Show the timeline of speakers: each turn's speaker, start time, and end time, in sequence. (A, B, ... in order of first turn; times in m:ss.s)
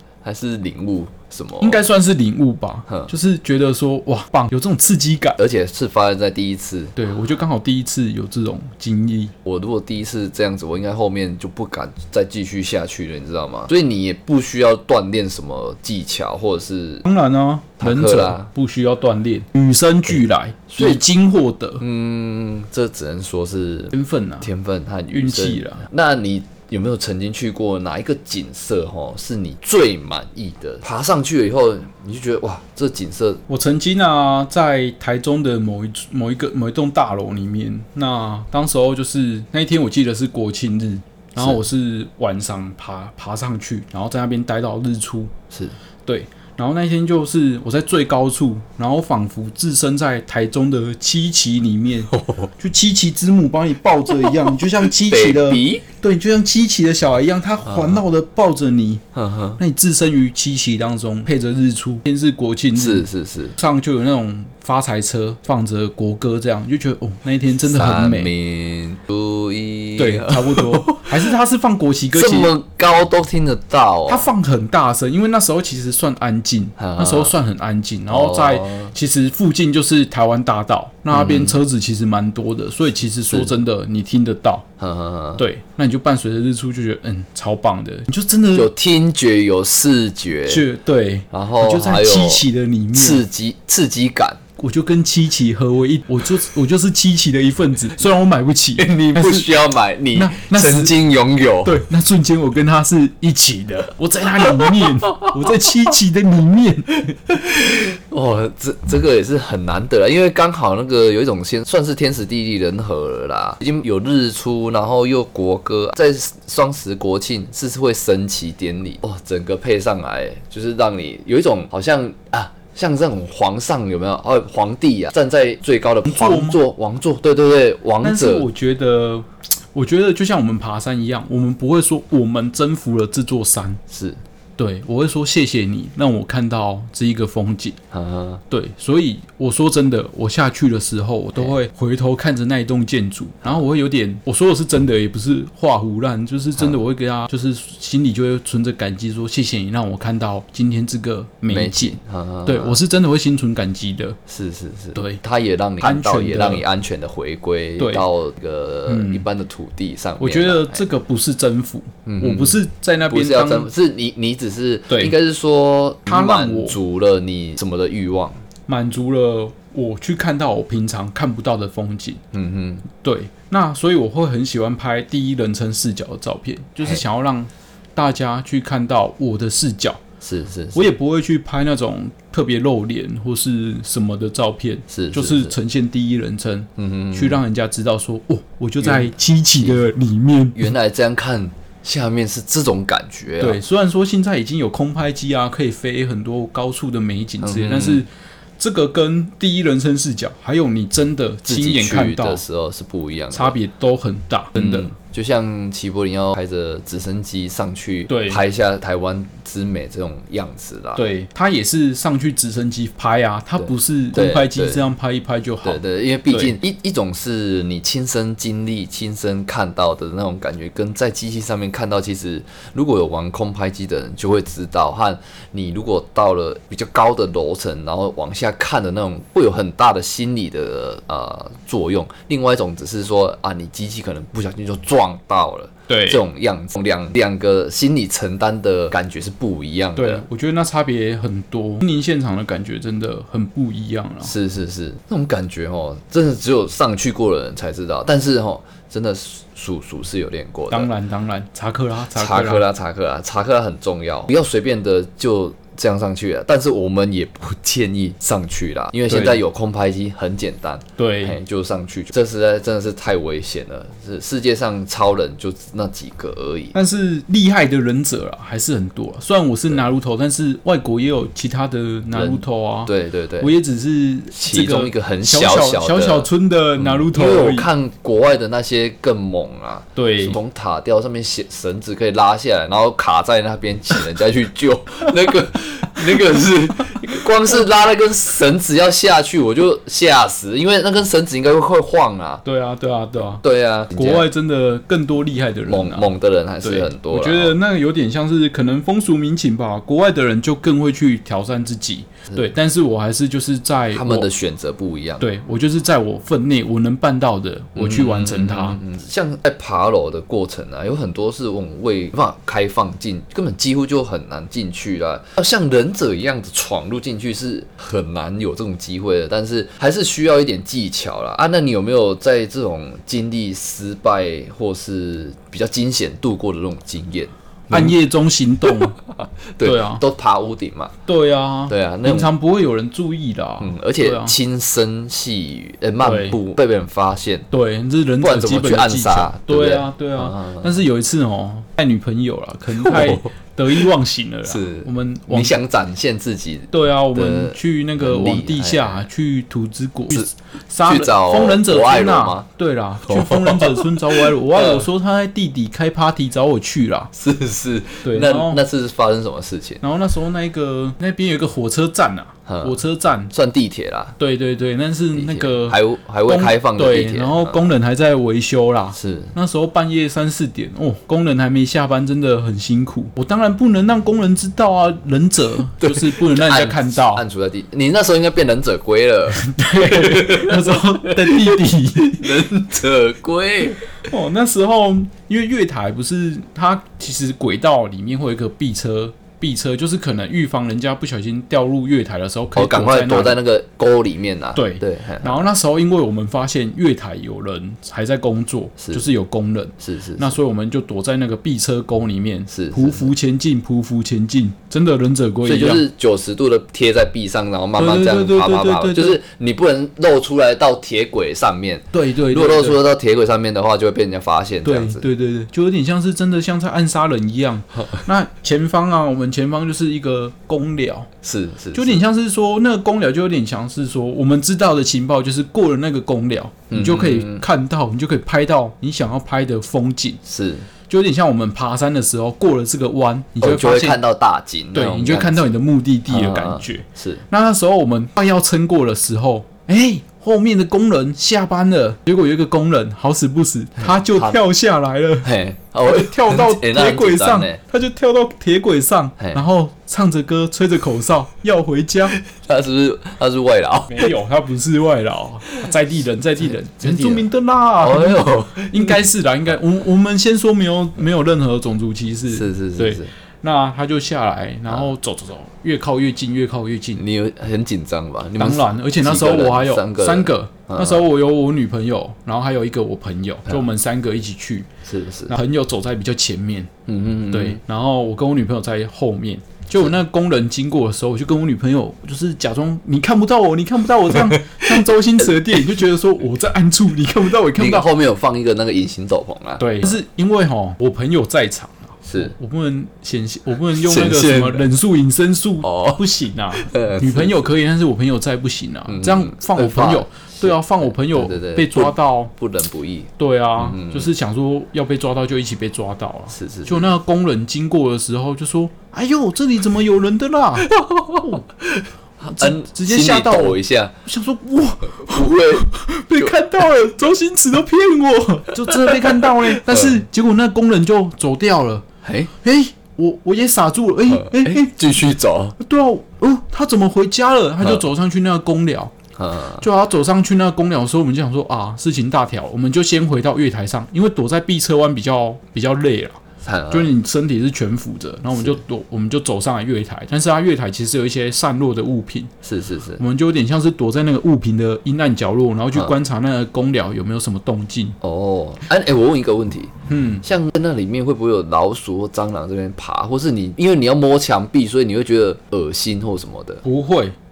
0:00.2-0:01.8 A
0:01.6-0:05.4 B
0:05.4-0:07.0 A
0:07.0-0:09.3 B
0:09.4-0:17.0 A
0:17.0-0:21.8 B
0:17.8-0:18.5 A
0:20.7-0:21.0 A
0:21.8-0:33.4 A
0:23.9-0:24.5 B
0:25.1-0:25.8 B
0:33.5-0:45.3 B
0:46.1-0:59.0 B
0:52.1-0:52.5 A
0:54.2-0:55.8 A
0:57.6-0:58.0 A
0:59.1-0:59.6 A
0:59.6-1:03.0 B
1:02.7-1:03.6 A
1:03.6-1:08.3 B
1:07.6-1:11.3 A
1:10.0-1:12.5 B
1:12.1-1:14.3 A
1:14.1-1:24.6 B
1:16.8-1:17.3 A
1:18.1-1:18.9 A
1:21.1-1:21.6 A
1:23.3-1:23.6 A
1:24.8-1:25.4 A
1:25.4-1:28.7 B
1:28.5-1:30.6 A
1:30.5-1:33.2 B
1:31.3-1:34.4 A
1:34.6-1:39.5 B
1:38.8-1:41.8 A
1:40.1-1:41.0 B
1:41.6-1:47.2 B
1:44.4-1:45.3 A
1:47.3-2:08.5 A
2:06.0-2:06.6 B
2:08.0-2:13.8 B
2:13.9-2:14.2 A
2:14.6-2:17.8 B
2:17.9-2:18.4 A
2:18.5-2:34.2 B
2:31.5-2:32.8 A
2:34.3-2:40.8 A
2:34.9-2:35.2 B
2:35.8-2:36.6 B
2:37.8-2:38.0 B
2:38.9-2:39.2 B
2:40.2-2:43.7 B
2:42.0-2:48.4 A
2:44.9-2:45.1 B
2:46.1-2:46.8 B
2:48.7-2:52.2 B
2:52.3-2:52.8 A
2:52.9-3:00.0 B
3:00.2-3:00.9 A
3:00.7-3:10.7 B
3:04.9-3:05.5 A
3:06.8-3:07.4 A
3:08.8-3:09.8 A
3:10.5-3:13.6 A
3:13.4-3:18.1 B
3:17.4-3:18.0 A
3:18.6-3:22.4 B
3:21.4-3:23.6 A
3:23.3-3:24.9 B
3:24.6-3:31.0 A
3:28.1-3:28.4 B
3:31.0-3:36.5 B
3:33.6-3:34.9 A
3:35.6-4:00.2 A
3:55.9-3:56.2 B
4:00.0-4:04.3 B
4:04.2-4:10.9 A
4:10.7-4:12.6 B
4:12.1-4:26.7 A
4:19.1-4:19.4 B
4:21.0-4:21.4 B
4:26.7-4:37.7 B
4:32.1-4:33.5 A
4:34.3-4:52.4 A
4:40.0-4:40.4 B
4:52.4-4:56.1 B
4:53.4-4:54.3 A
4:55.7-4:57.6 A
4:56.6-5:04.3 B
5:03.9-5:05.2 A
5:05.2-5:08.8 B
5:07.8-5:28.0 A
5:27.7-5:29.0 B
5:28.7-5:30.9 A
5:29.6-5:30.0 B
5:31.1-5:34.4 B
5:31.7-5:32.3 A
5:33.6-5:37.5 A
5:36.0-5:36.4 B
5:37.5-5:45.6 B
5:38.2-5:40.8 A
5:42.8-5:43.3 A
5:44.4-5:49.1 A
5:46.7-5:57.1 B
5:50.8-5:52.5 A
5:53.1-5:54.9 A
5:57.1-5:59.8 A
5:58.0-5:58.6 B
5:59.8-6:03.3 B
6:02.5-6:02.8 A
6:03.3-6:04.2 A
6:04.2-6:17.2 B
6:05.1-6:07.6 A
6:09.0-6:09.3 A
6:15.8-6:23.8 A
6:19.3-6:22.4 B
6:24.0-6:33.4 B
6:32.5-6:35.4 A
6:34.5-6:45.8 B
6:38.8-6:39.0 A
6:39.8-6:40.3 A
6:42.5-6:43.1 A
6:45.4-6:55.0 A
6:47.8-6:49.2 B
6:51.9-6:52.8 B
6:54.6-7:01.1 B
7:01.2-7:02.0 A
7:01.7-7:10.2 B
7:06.7-7:07.4 A
7:10.2-7:10.7 A
7:10.9-7:14.0 B
7:13.4-7:15.5 A
7:14.7-7:25.3 B
7:16.1-7:17.2 A
7:23.8-7:24.4 A
7:25.2-7:27.6 A
7:25.8-7:32.2 B
7:32.2-7:34.1 A
7:33.9-7:47.0 B
7:36.8-7:37.2 A
7:37.8-7:39.0 A
7:42.3-7:43.1 A
7:46.9-7:51.1 A
7:48.4-7:54.7 B
7:54.8-7:55.3 A
7:55.3-7:56.7 B
7:56.9-7:57.6 A
7:57.3-8:07.9 B
8:04.1-8:04.8 A
8:07.5-8:10.0 A
8:09.6-8:22.3 B
8:12.1-8:12.3 A
8:13.7-8:14.7 A
8:15.6-8:16.0 A
8:16.5-8:17.4 A
8:18.9-8:24.1 A
8:23.2-8:31.4 B
8:26.3-8:26.9 A
8:30.6-8:33.9 A
8:32.3-8:41.8 B
8:35.0-8:36.3 A
8:38.7-8:40.0 A
8:42.0-8:42.3 A
8:42.4-8:44.7 B
8:44.1-8:45.6 A
8:45.6-8:49.0 B
8:49.2-8:49.6 A
8:49.6-9:02.3 B
8:56.4-8:56.9 A
9:02.4-9:03.0 A
9:03.0-9:08.0 B
9:08.0-9:16.6 A
9:09.9-9:10.2 B
9:16.6-9:17.1 B